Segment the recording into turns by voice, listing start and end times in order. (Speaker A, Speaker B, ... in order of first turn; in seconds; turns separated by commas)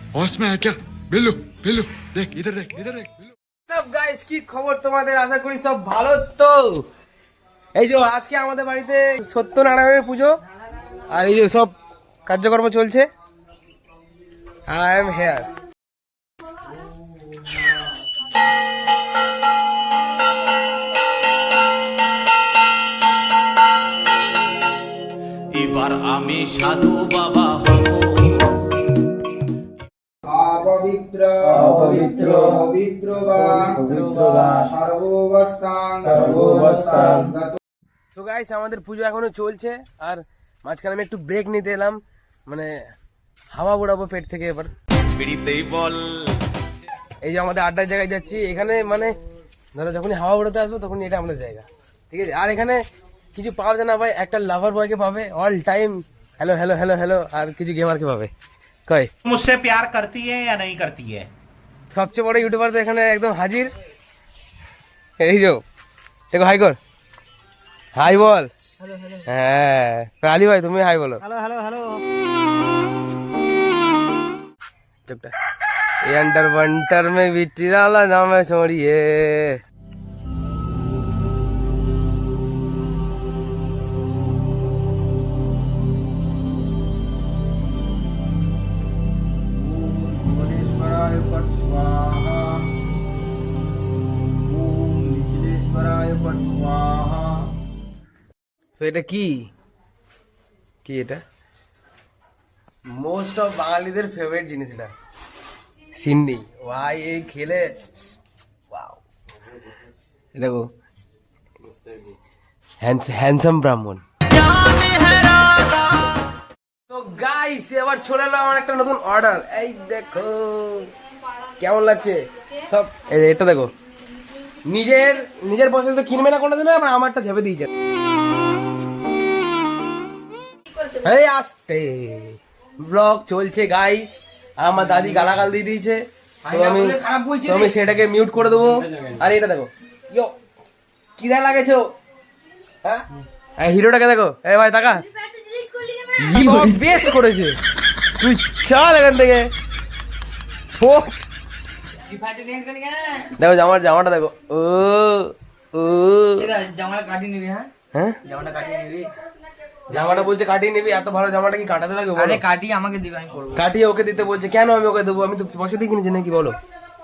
Speaker A: 0.1-3.3, Speaker B: 3.6-6.8, Speaker B: 7.7-10.4, Speaker B: 11.1-11.7, Speaker B: 12.2-13.1, Speaker B: 14.7-15.5, Speaker C: 25.5-28.5, Speaker D: 30.2-33.9, Speaker B: 31.7-32.0, Speaker E: 31.7-32.4, Speaker B: 33.8-34.5, Speaker E: 34.0-34.6, Speaker D: 34.5-37.5, Speaker B: 38.1-42.7, Speaker B: 43.5-44.7, Speaker C: 45.2-46.3, Speaker B: 47.2-49.1, Speaker B: 49.7-52.8, Speaker B: 53.3-58.3, Speaker F: 59.2-61.3, Speaker B: 61.9-63.7, Speaker B: 65.2-65.6, Speaker B: 66.3-66.8, Speaker B: 67.9-68.5, Speaker B: 69.2-71.4, Speaker E: 71.3-72.0, Speaker B: 75.0-75.3, Speaker B: 76.0-79.6, Speaker D: 89.6-92.7, Speaker D: 94.7-97.5, Speaker B: 95.4-96.2, Speaker B: 98.8-99.5, Speaker B: 100.8-101.2, Speaker B: 102.9-104.9, Speaker B: 105.9-107.7, Speaker B: 108.7-109.0, Speaker B: 110.3-110.7, Speaker B: 112.8-114.0, Speaker C: 114.5-115.7, Speaker B: 116.9-120.9, Speaker B: 121.6-123.7, Speaker B: 124.7-127.7, Speaker B: 130.8-140.3, Speaker E: 136.4-137.7, Speaker B: 141.2-141.9, Speaker B: 143.6-145.1, Speaker E: 145.4-146.9, Speaker B: 146.1-147.6, Speaker B: 148.2-149.5, Speaker B: 150.8-151.2, Speaker E: 152.0-153.3, Speaker B: 153.3-156.5, Speaker E: 156.4-157.7, Speaker B: 157.9-158.2, Speaker E: 158.2-159.1, Speaker E: 159.9-160.2, Speaker B: 159.9-162.4, Speaker E: 162.2-163.6, Speaker B: 163.5-166.6